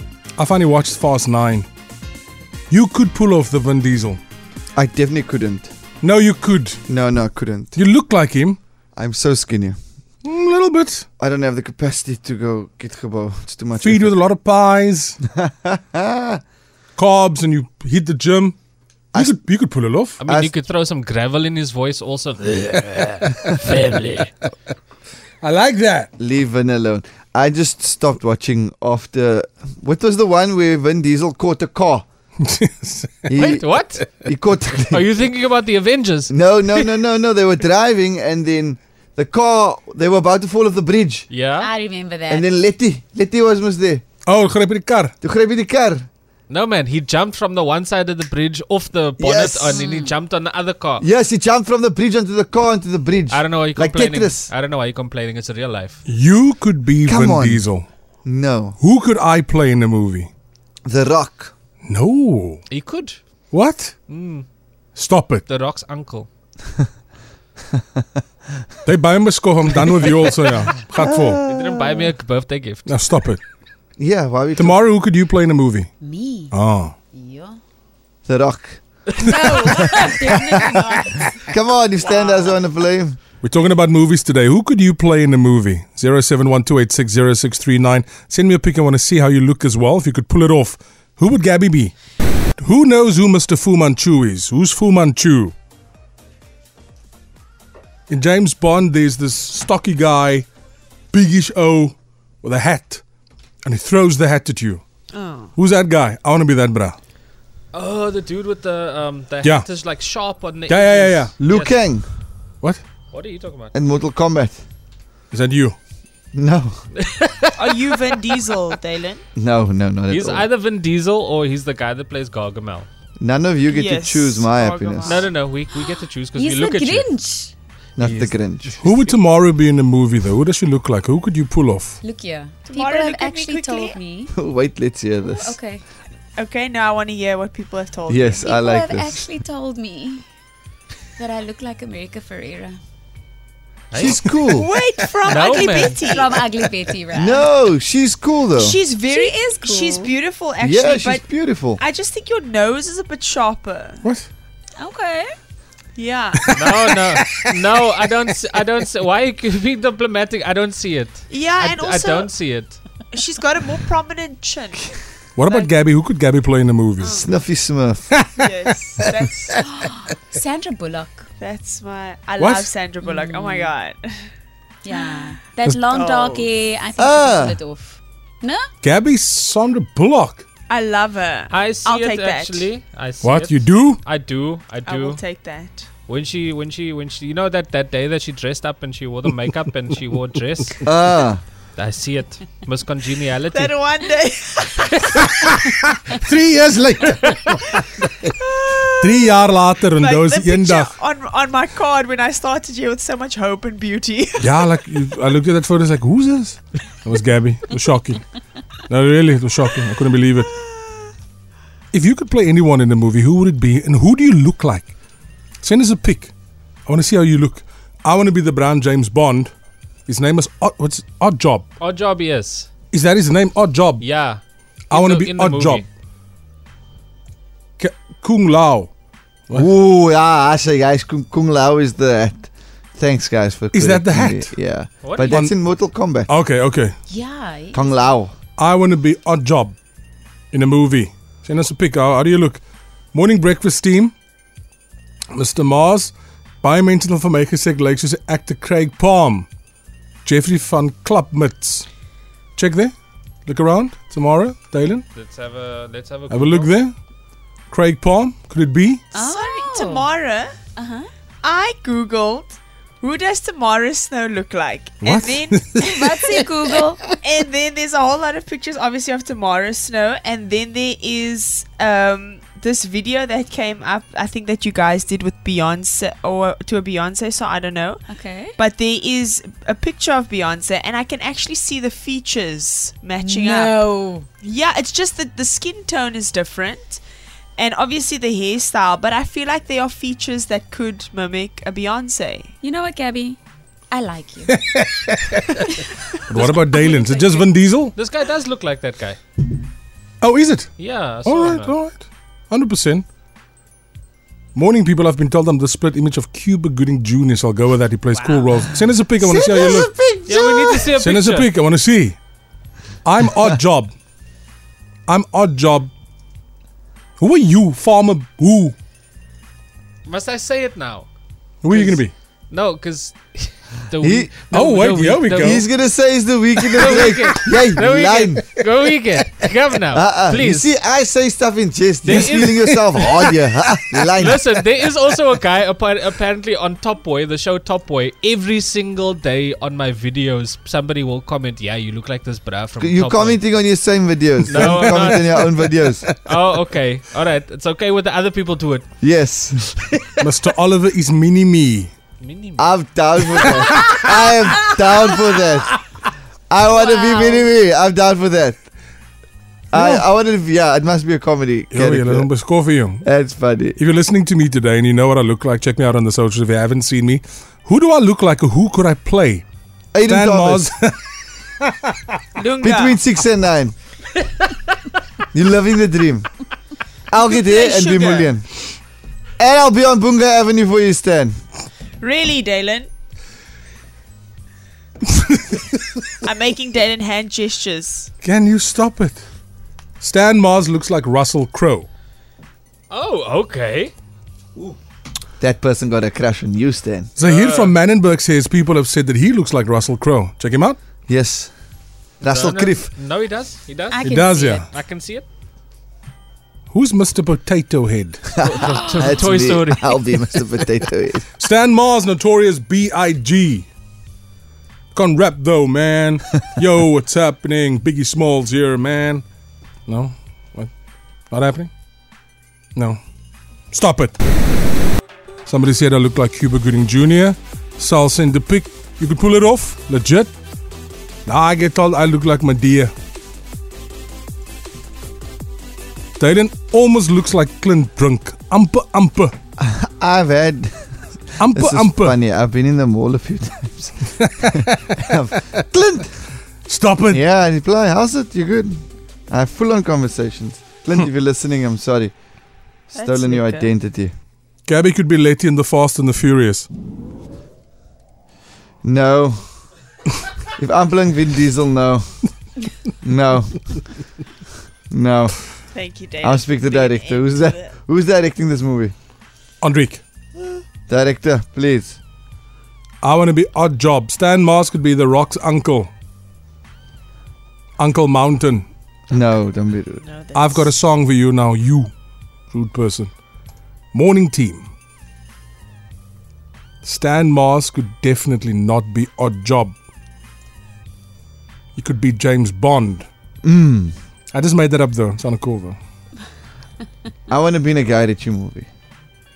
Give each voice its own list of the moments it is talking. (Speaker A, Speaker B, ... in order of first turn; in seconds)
Speaker A: 0.4-1.7, 2.7-4.2, 6.0-6.8, 7.7-8.6, 10.2-11.1, 13.8-15.2, 16.9-18.6, 19.1-20.2, 22.7-23.6, 25.4-26.1, 32.4-33.2, 44.2-45.1, 56.0-57.9, 58.8-60.3, 61.8-62.6, 63.5-63.9, 64.9-65.4, 68.8-71.4, 72.8-73.4, 74.5-75.9, 76.5-76.9, 83.4-91.9, 92.6-95.5, 98.1-100.5, 101.1-103.0, 103.6-104.8, 105.5-107.0, 109.4-109.7, 110.7-111.3, 115.3-115.8, 128.8-132.0, 154.0-154.3, 165.3-167.2, 172.4-172.7, 178.8-180.4, 183.2-184.0, 195.4-198.2, 199.0-200.9, 204.4-208.2, 208.9-210.6, 211.9-214.9, 215.6-216.3, 216.8-219.5, 220.1-221.7, 222.9-224.1, 224.9-225.8, 227.8-228.9, 233.7-234.6, 235.2-236.9, 238.6-239.8, 240.5-242.6, 243.1-244.1, 245.3-249.5, 250.2-251.9, 252.6-252.9, 253.4-255.1, 256.3-256.9, 257.7-259.0, 265.0-265.9, 294.5-295.6, 296.3-297.9, 300.2-303.1, 304.5-309.9, 311.0-312.2, 313.0-313.9, 315.1-315.9, 317.2-318.8, 321.6-322.1, 324.5-325.6, 326.8-327.2, 332.1-332.6, 344.6-345.4, 350.2-351.9, 359.7-360.1, 361.7-363.1, 363.8-369.4, 370.1-371.0, 388.2-389.2, 390.0-391.9, 397.2-400.8, 404.0-404.6, 406.7-408.2, 411.4-413.7, 414.9-419.2, 419.9-420.7, 421.3-421.7, 423.7-424.2, 425.4-430.3, 431.3-432.9, 436.2-439.3, 441.4-442.2, 444.2-444.8, 446.6-447.2, 454.6-456.7, 469.6-470.0, 473.0-475.9, 477.8-478.6, 480.3-481.9, 482.5-483.1, 483.9-484.7, 486.8-489.8, 491.7-493.1, 494.3-495.8
Speaker B: 4.8-5.7, 6.9-7.8, 8.9-9.8, 11.2-14.2, 15.3-16.4, 20.2-20.5, 26.2-32.0, 33.2-35.0, 36.3-41.3, 42.3-44.0, 45.2-46.1, 49.2-49.8, 51.0-54.5, 57.0-57.6, 58.2-58.8, 60.8-61.5, 67.8-68.0, 71.0-72.1, 74.0-74.8, 78.2-79.0, 79.6-80.5, 81.3-83.2, 111.4-112.0, 113.7-114.6, 116.3-116.8, 119.3-120.5, 123.2-125.3, 128.0-128.8, 134.3-135.6, 138.1-139.1, 143.9-144.7, 147.1-148.8, 150.6-151.8, 167.1-168.2, 177.0-177.6, 190.8-191.4, 229.5-236.3, 237.7-238.3, 309.2-310.9, 324.0-324.3, 325.4-328.4, 329.9-334.5, 342.8-346.1, 349.0-349.8, 352.6-355.7, 356.5-358.6, 359.7-362.3, 363.0-363.8, 369.9-370.7, 372.6-373.7, 375.3-376.3, 377.1-378.5, 379.4-381.4, 395.4-397.1, 401.1-401.5, 402.2-402.9, 408.4-411.3, 439.6-440.7, 441.4-444.1, 444.6-446.2, 447.1-452.1, 452.9-454.1, 458.8-459.5, 460.6-462.1, 463.0-463.7, 464.9-465.4, 466.2-468.9, 470.9-472.0, 479.1-480.0, 493.4-493.9, 497.3-498.7
Speaker C: 20.2-22.9, 23.5-24.3, 33.3-34.0, 34.8-36.3, 41.3-41.7, 46.5-51.0, 53.3-56.0, 62.7-63.2, 64.1-64.5, 65.5-66.3, 70.0-70.5, 71.5-72.8, 107.7-111.8, 113.1-113.8, 117.0-117.5, 120.1-122.9, 125.0-127.1, 128.0-129.2, 143.9-144.5, 145.3-146.1, 156.5-162.8, 181.5-185.2, 186.1-190.8, 191.8-193.7, 221.8-222.7, 224.0-225.9, 235.0-235.3, 255.1-256.7, 297.9-299.2, 300.8-301.7, 308.1-308.4, 310.2-311.5, 320.0-321.1, 321.7-325.6, 326.8-330.7, 332.0-332.8, 334.2-343.4, 344.4-345.3, 346.2-348.9, 352.2-352.7, 392.9-393.9, 397.2-397.7, 402.3-405.2, 408.4-410.1
Speaker D: 41.6-42.5, 49.7-50.1, 76.0-76.5, 77.1-77.6, 79.2-81.3, 125.7-127.5, 132.0-134.3, 135.2-135.8, 138.8-140.2, 141.2-142.8, 145.4-147.5, 149.1-150.1, 154.8-155.3, 167.0-167.4, 169.5-171.3, 173.0-173.7, 174.8-178.7, 237.1-237.9, 259.1-260.1, 260.8-261.1, 265.8-267.1, 278.1-278.6, 283.2-284.3, 292.6-293.4, 293.9-294.6, 296.4-297.5, 356.8-357.4, 403.9-404.7, 408.6-409.1
Speaker E: 105.1-105.5, 117.5-119.2, 123.7-125.3, 132.6-134.0, 136.3-139.2, 144.5-146.4, 148.6-154.1, 155.9-156.6, 161.3-162.3, 163.1-165.7, 168.4-169.6, 171.4-174.3, 174.9-176.5, 180.7-182.7, 184.8-185.9, 193.5-195.0, 198.2-199.3, 200.0-204.7, 259.2-260.6, 261.4-278.1, 278.6-283.8, 284.4-287.0, 287.6-292.6, 372.4-373.0, 377.3-378.3, 382.0-382.9, 386.2-388.1, 452.9-453.7, 465.7-467.7, 480.0-480.7